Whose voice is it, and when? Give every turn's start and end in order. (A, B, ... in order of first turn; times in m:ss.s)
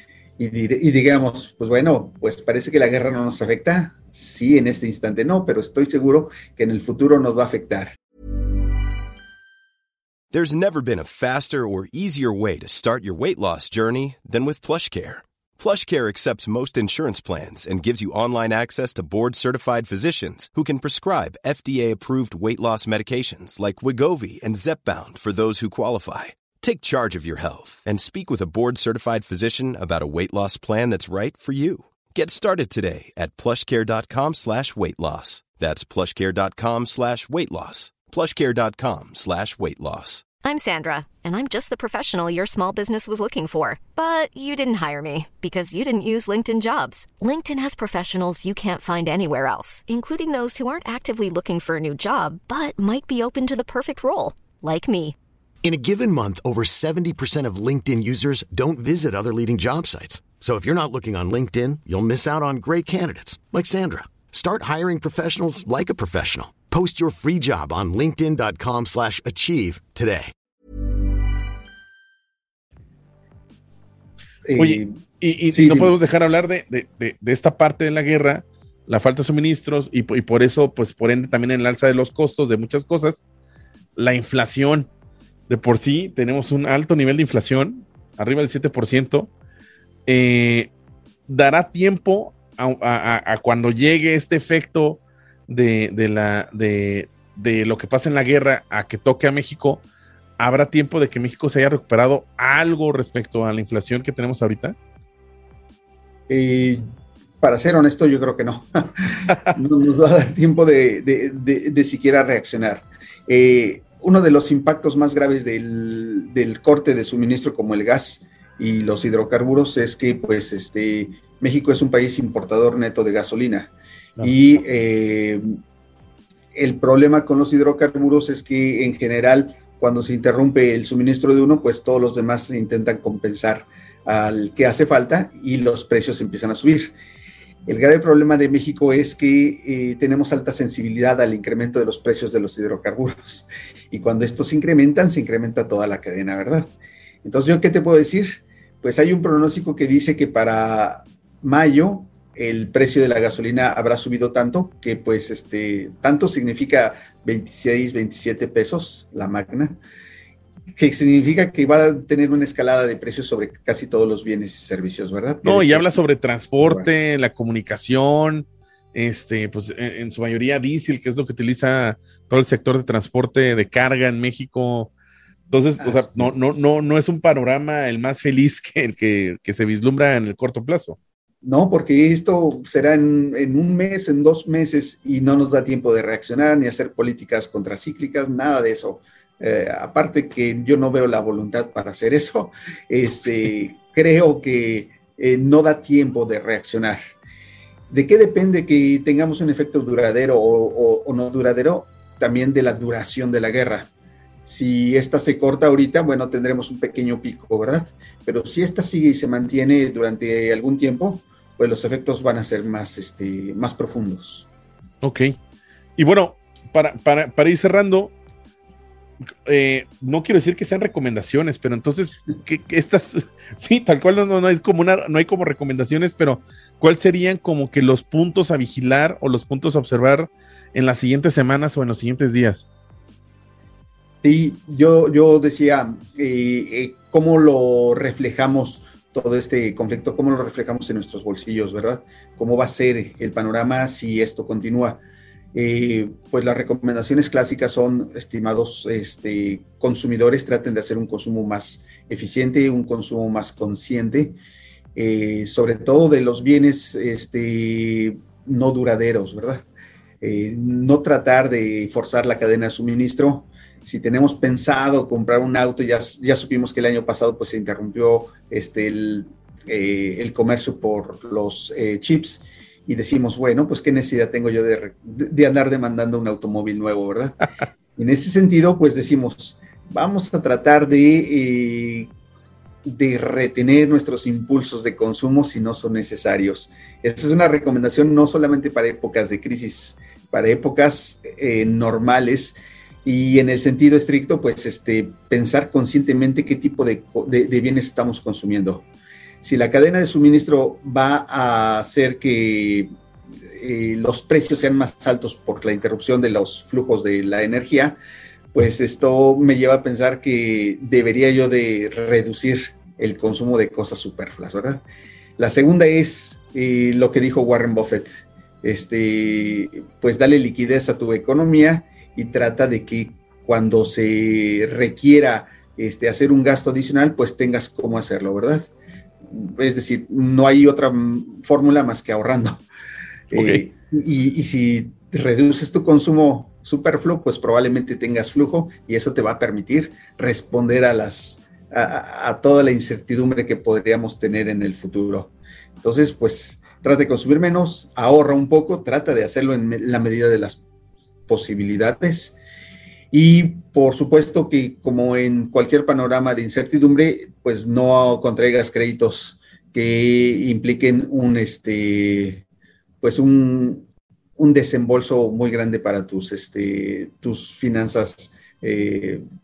0:00.4-0:08.0 A
0:10.3-0:40.3 B
0:40.4-0:55.2 C
0:55.6-1:10.3 D
1:14.4-1:14.9 A
1:14.6-1:23.2 E
1:15.5-1:16.0 A
1:24.0-1:24.9 E
1:25.5-1:29.3 E
1:30.1-1:30.7 E
1:31.3-1:39.8 E
1:40.4-1:44.8 E
1:46.3-1:46.8 A
1:47.4-2:05.4 A
2:06.5-2:16.9 A
2:17.7-2:26.7 A
2:27.2-2:39.8 A
2:40.8-2:46.0 A
2:45.4-2:54.9 E
2:46.6-2:46.9 A
2:55.5-3:01.0 E
2:55.8-2:56.6 A
3:01.4-3:17.0 A
3:17.9-3:23.9 A
3:24.5-3:34.5 A
3:35.0-3:35.4 E
3:36.0-3:38.1 E
3:39.5-3:52.6 E
3:54.2-4:05.0 A
4:05.5-4:14.4 A
4:15.0-4:19.6 A
4:20.2-4:42.1 A
4:42.8-4:58.9 A
4:59.4-5:02.9 A
5:03.5-5:08.0 A
5:08.5-5:14.8 A
5:15.4-5:18.1 A
5:18.6-5:28.7 A
5:29.3-5:32.6 A
5:33.3-5:50.6 A
5:33.3-5:33.6 E
5:51.3-5:52.4 A
5:53.1-6:02.4 A
6:03.0-6:03.8 A
6:04.4-6:09.2 A